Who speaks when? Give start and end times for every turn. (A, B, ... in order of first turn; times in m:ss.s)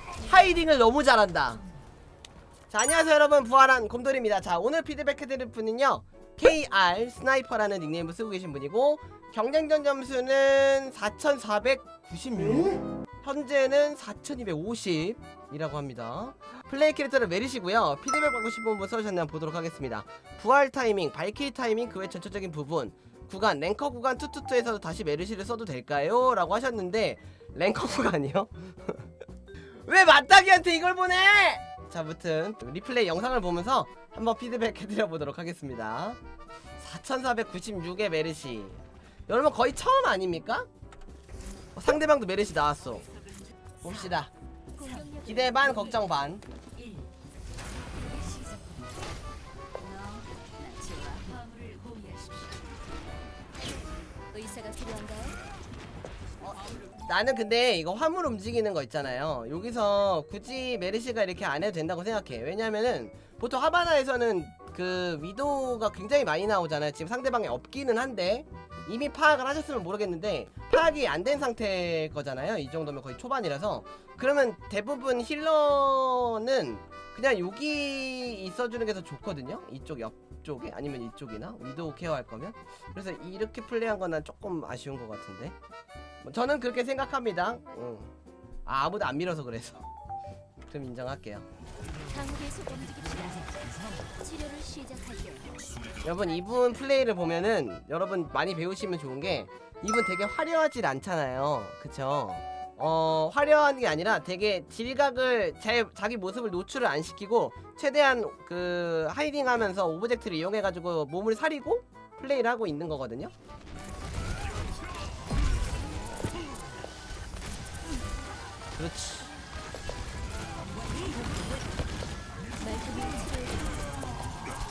0:00.2-0:01.6 A
0:02.7-0:29.1 A
0:29.8-0:36.2 A
0:36.8-0:40.7 A
0:41.7-0:43.1 A
0:43.8-0:44.3 A
0:44.8-0:45.6 B
0:45.2-0:46.4 A
0:49.8-0:52.4 B
0:54.3-0:55.4 B
0:57.0-1:25.6 A
1:26.2-1:28.1 A
1:28.6-1:29.9 A
1:30.7-1:31.4 A
1:32.1-1:35.7 B
1:36.0-1:53.3 A
1:58.8-1:59.3 A
2:02.6-2:03.7 B